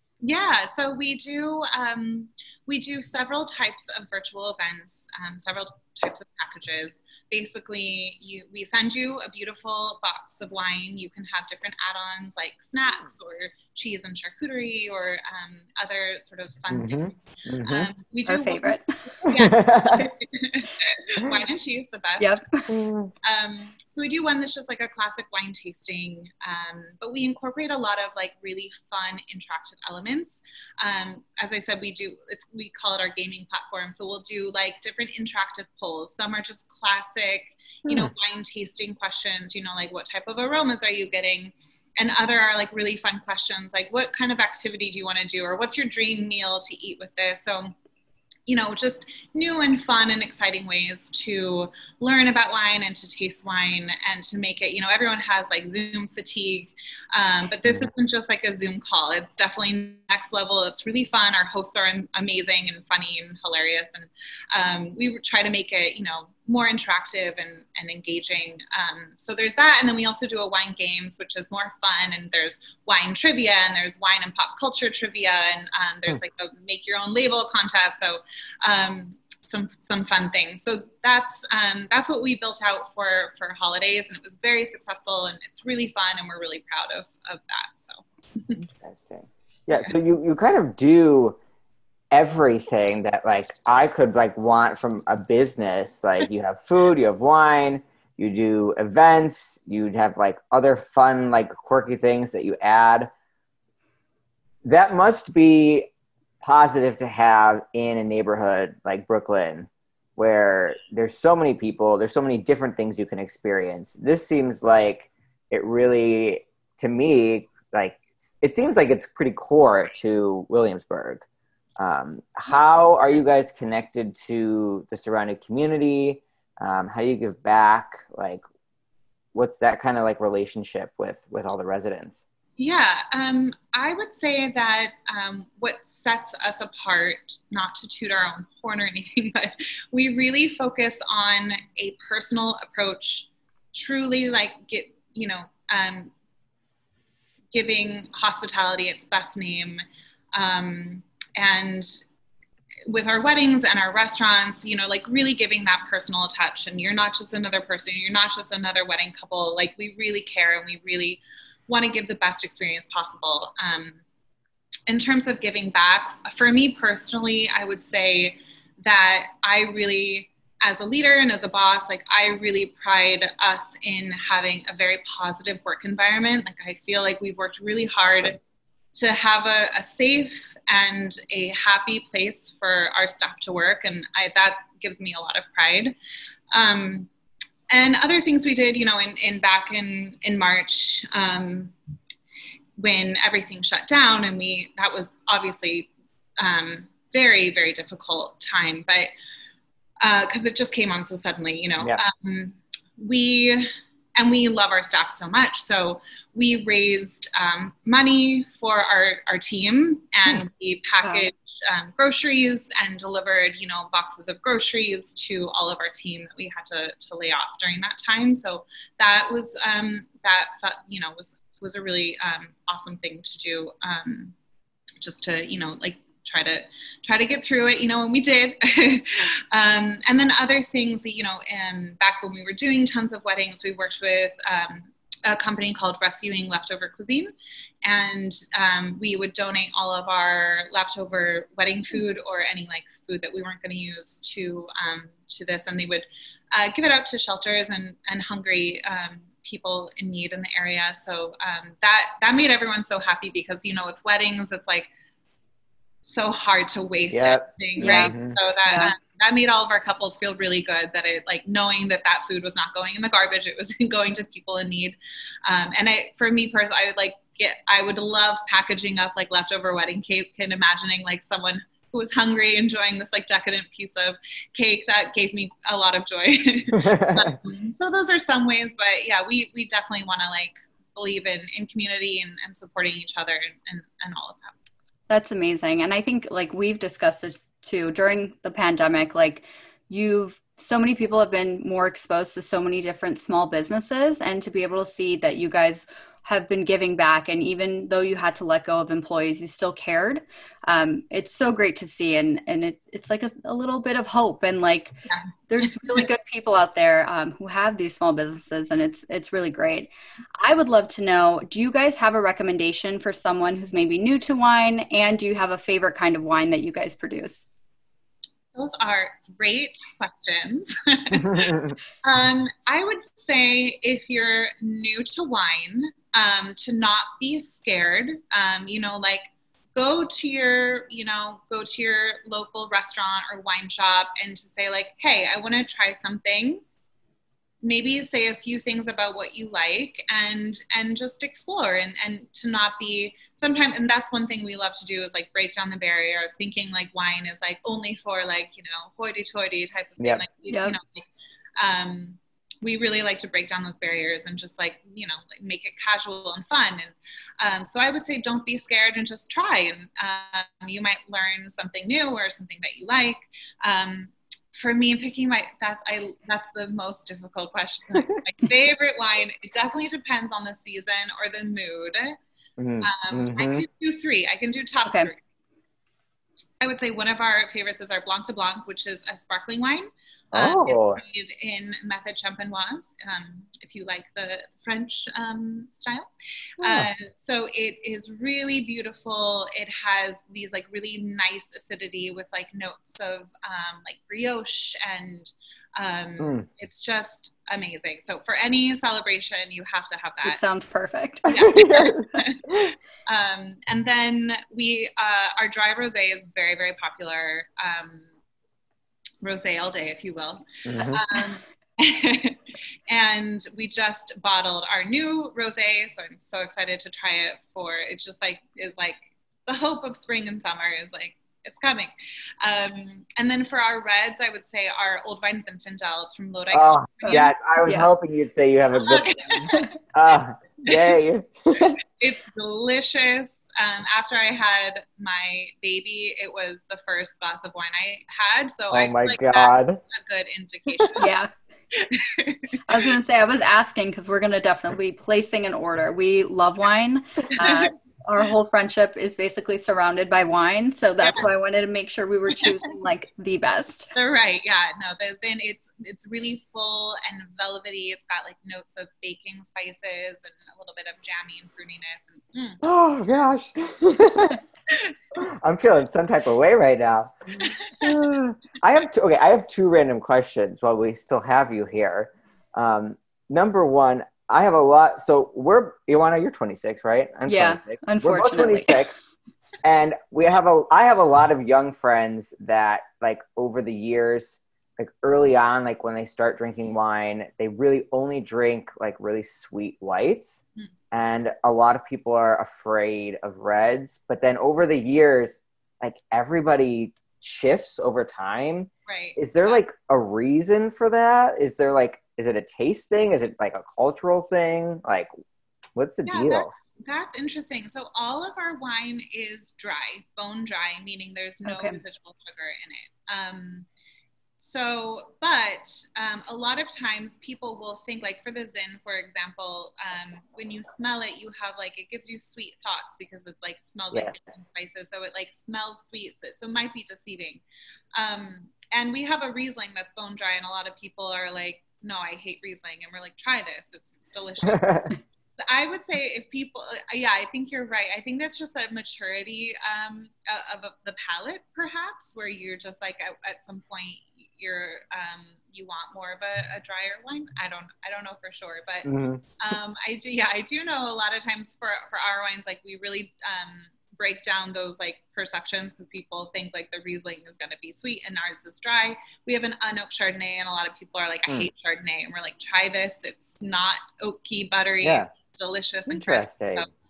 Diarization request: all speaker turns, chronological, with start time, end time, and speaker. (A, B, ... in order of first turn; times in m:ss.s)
0:00.2-0:22.4 A
0:16.7-0:17.9 B
0:18.2-0:19.0 C
0:19.3-0:20.1 B
0:22.2-0:22.7 C
0:22.7-0:23.1 B
0:23.2-0:47.7 A
0:37.8-0:38.1 B
0:48.5-1:28.6 A
1:28.8-1:31.4 B
1:32.1-1:43.1 B
1:44.6-1:45.9 B
1:46.4-2:01.2 B
2:01.8-2:08.4 B
2:09.3-2:12.2 B
2:12.6-2:26.1 A
2:27.5-2:32.0 A
2:32.9-2:44.0 A
2:44.9-2:58.4 A
2:58.9-3:05.9 A
3:06.5-3:07.1 A
3:07.7-3:11.7 A
3:12.8-3:19.1 A
3:20.0-3:44.3 A
3:31.0-3:31.3 C
3:45.0-3:57.3 A
3:57.8-4:14.9 A
4:16.0-4:44.5 A
4:17.1-4:18.4 B
4:17.8-4:18.1 C
4:18.7-4:18.9 C
4:36.7-4:37.3 B
4:45.1-5:04.9 C
5:05.5-5:17.4 C
5:18.5-5:36.6 A
5:21.3-5:21.7 B
5:37.6-5:51.0 A
5:50.5-5:50.8 C
5:51.6-6:12.2 A
6:12.6-6:13.6 B
6:12.8-6:15.2 A
6:16.6-6:40.4 A
6:20.3-6:21.0 B
6:26.6-6:26.9 B
6:36.2-6:36.4 B
6:40.2-6:41.5 C
6:41.3-6:48.0 A
6:41.4-6:42.7 B
6:49.2-7:07.3 A
6:50.6-6:51.0 B
7:06.5-7:11.8 B
7:07.1-7:07.9 C
7:08.7-7:09.7 A
7:10.7-7:11.0 A
7:12.0-7:21.1 A
7:18.7-7:19.8 B
7:21.0-7:21.3 C
7:21.7-7:22.8 A
7:22.7-7:33.9 C
7:27.4-7:27.7 A
7:31.0-7:31.3 A
7:33.9-7:42.6 A
7:42.6-7:44.4 B
7:45.1-7:47.1 B
7:47.5-7:47.9 A
7:47.8-7:59.0 B
7:57.3-7:58.8 C
7:59.6-8:25.1 B
8:18.8-8:19.6 A
8:25.8-8:26.5 B
8:26.0-8:33.6 A
8:31.4-8:31.8 C
8:34.4-8:47.4 A
8:43.9-8:44.4 B
8:47.9-9:26.7 A
8:54.4-8:54.9 B
9:08.8-9:09.2 B
9:24.8-9:25.1 B
9:25.9-9:26.7 B